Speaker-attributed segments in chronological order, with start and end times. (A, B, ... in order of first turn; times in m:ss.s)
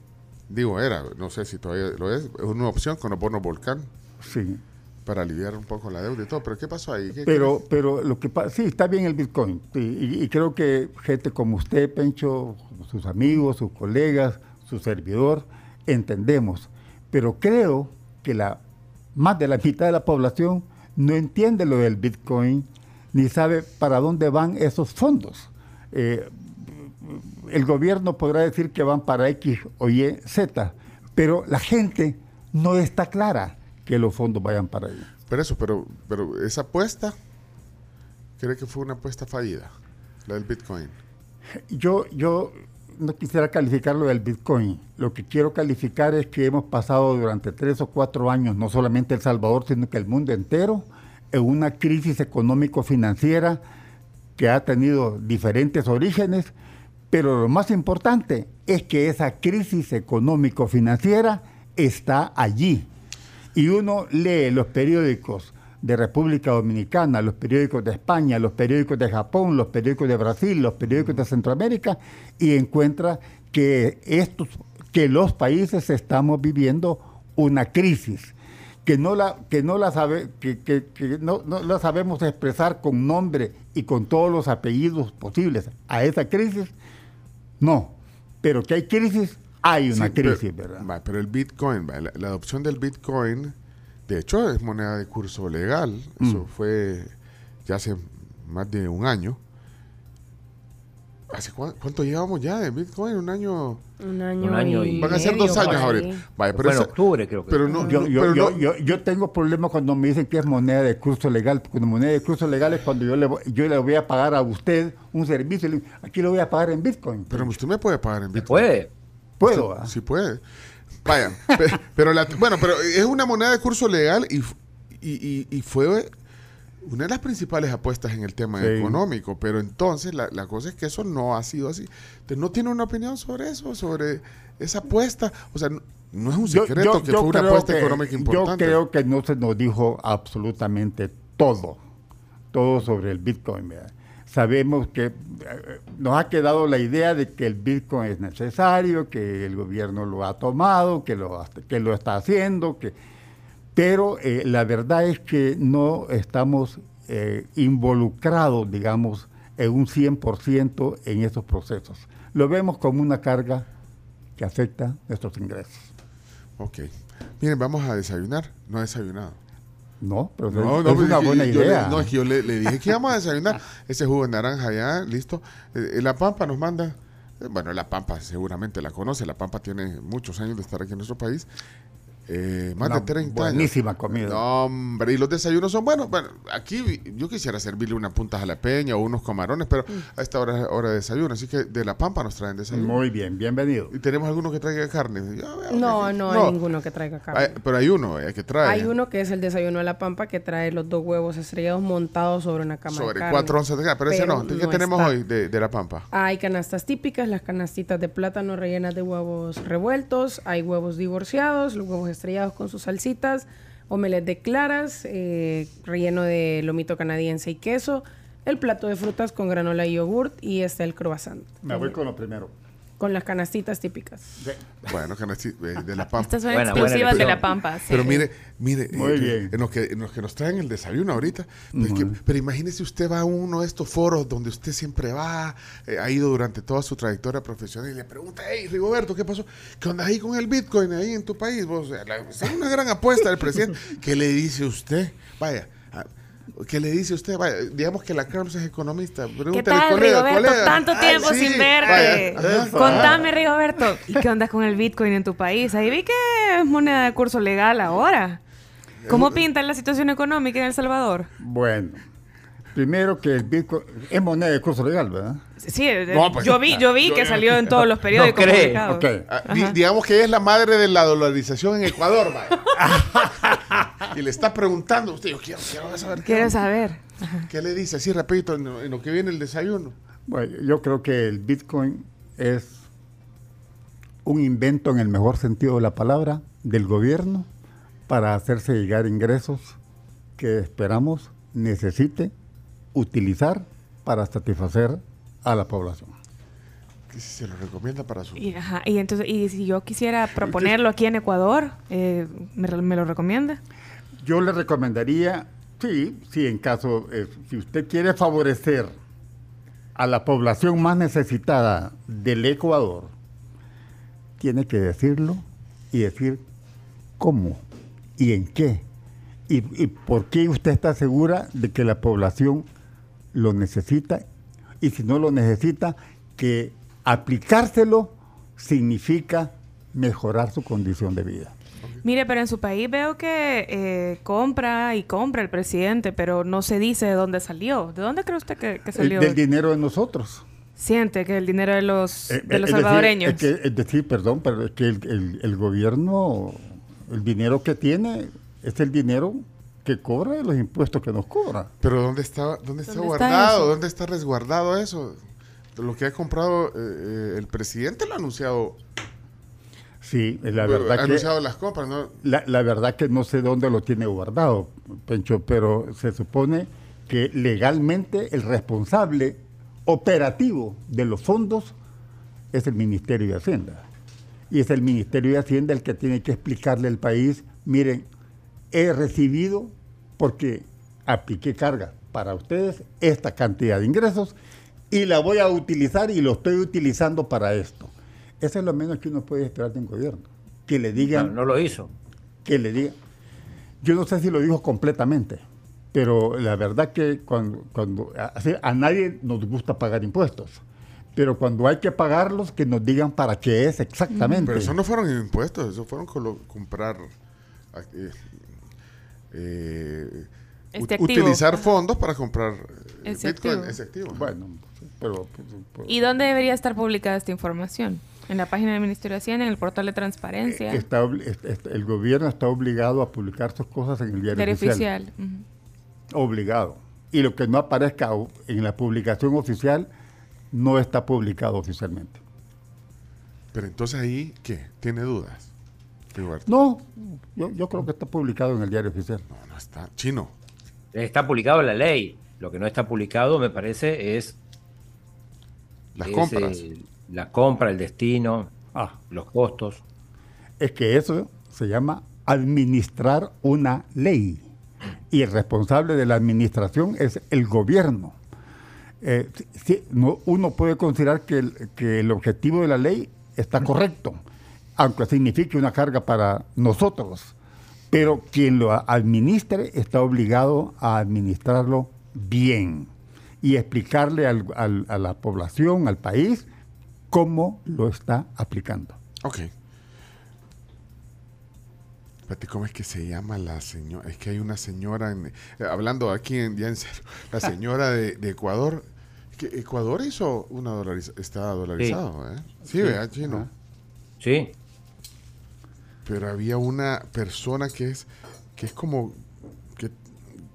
0:00.5-0:03.9 A
0:04.2-0:04.6 B
0:05.0-0:07.5 A
0:07.2-0:18.6 B
0:19.2-0:35.1 B
0:35.3-0:37.1 A
0:38.4-0:39.7 A
0:40.2-0:40.9 A
0:41.7-0:53.6 B
0:54.4-0:56.5 B
0:57.1-1:02.9 B
1:03.5-1:26.7 B
1:10.9-1:11.2 A
1:27.6-1:30.9 B
1:29.9-1:33.6 A
1:34.1-1:37.1 A
1:37.6-1:39.4 A
1:41.3-1:43.8 A
1:44.0-1:46.2 C
1:44.4-1:46.0 D
1:45.0-1:46.9 A
1:46.5-1:47.6 D
1:47.5-1:48.7 A
1:47.6-1:48.0 C
1:47.8-1:57.6 B
1:57.3-1:58.7 A
1:58.5-1:58.9 D
1:59.4-1:59.9 B
1:59.4-2:06.1 A
2:06.8-2:18.8 A
2:08.6-2:09.0 B
2:16.4-2:21.8 B
2:22.5-2:32.9 B
2:33.7-2:43.7 B
2:44.4-2:45.9 B
2:46.6-2:49.4 A
2:50.0-2:52.1 B
2:50.5-3:01.5 A
3:02.3-3:13.0 A
3:02.8-3:04.4 B
3:12.7-3:13.9 B
3:13.9-3:16.6 A
3:15.7-3:17.6 C
3:17.3-3:18.9 A
3:18.6-3:23.6 C
3:22.9-3:26.1 A
3:24.1-3:25.1 C
3:26.1-3:41.9 C
3:41.6-3:42.5 B
3:43.0-3:44.4 C
3:44.4-3:44.9 B
3:44.8-4:13.2 A
3:46.1-3:48.3 E
3:46.5-3:47.4 D
3:48.9-3:49.6 B
3:51.7-3:52.2 B
4:09.5-4:18.4 E
4:12.4-4:13.2 B
4:19.0-4:19.4 A
4:19.0-4:21.3 E
4:21.4-4:22.0 B
4:22.7-4:25.4 B
4:25.6-4:29.8 E
4:26.1-4:27.8 A
4:28.1-4:28.8 D
4:28.1-4:29.2 B
4:29.3-4:32.6 A
4:32.8-4:34.1 B
4:34.0-4:36.6 A
4:36.2-4:37.5 E
4:37.5-4:39.9 A
4:40.3-4:42.9 B
4:44.2-4:47.5 B
4:48.1-4:49.8 B
4:50.4-4:52.3 B
4:52.9-4:56.1 B
4:57.1-4:58.6 A
4:58.4-5:03.6 E
5:00.4-5:00.7 A
5:04.2-5:08.9 B
5:10.0-5:13.1 B
5:14.4-5:16.4 B
5:17.2-5:17.6 B
5:18.2-5:18.8 B
5:19.5-5:22.7 B
5:23.3-5:24.2 B
5:24.8-5:31.5 B
5:32.0-5:39.4 E
5:39.0-5:40.4 B
5:40.8-5:43.4 E
5:42.3-5:51.7 B
5:51.8-5:55.2 A
5:52.9-5:53.7 E
5:55.7-5:58.8 A
6:00.0-6:01.3 B
6:00.5-6:02.2 A
6:02.2-6:11.7 B
6:12.5-6:13.8 B
6:14.5-6:18.0 B
6:18.7-6:24.4 B
6:24.9-6:31.3 B
6:31.0-6:31.9 D
6:32.4-6:33.0 B
6:33.8-6:40.6 B
6:41.2-6:44.7 B
6:44.1-6:44.5 E
6:44.4-6:47.1 A
6:47.7-6:48.4 A
6:49.3-6:54.3 A
6:50.7-6:51.4 E
6:53.0-6:53.8 E
6:54.1-6:56.0 B
6:55.9-7:00.8 E
7:00.5-7:04.8 B
7:04.3-7:05.4 E
7:06.1-7:09.9 B
7:10.5-7:12.2 B
7:13.5-7:15.5 A
7:16.1-7:16.5 A
7:16.5-7:19.2 B
7:19.3-7:20.3 A
7:20.9-7:24.4 D
7:25.9-7:26.6 A
7:26.0-7:28.5 D
7:29.1-7:29.8 D
7:30.6-7:34.5 B
7:35.1-7:38.2 B
7:39.0-7:44.2 B
7:44.8-7:47.3 B
7:47.9-7:52.9 B
7:53.4-7:56.5 B
7:57.1-7:59.0 B
7:59.2-7:59.5 A
8:02.3-8:13.5 A
8:12.8-8:13.5 B
8:14.2-8:14.5 D
8:16.0-8:19.2 A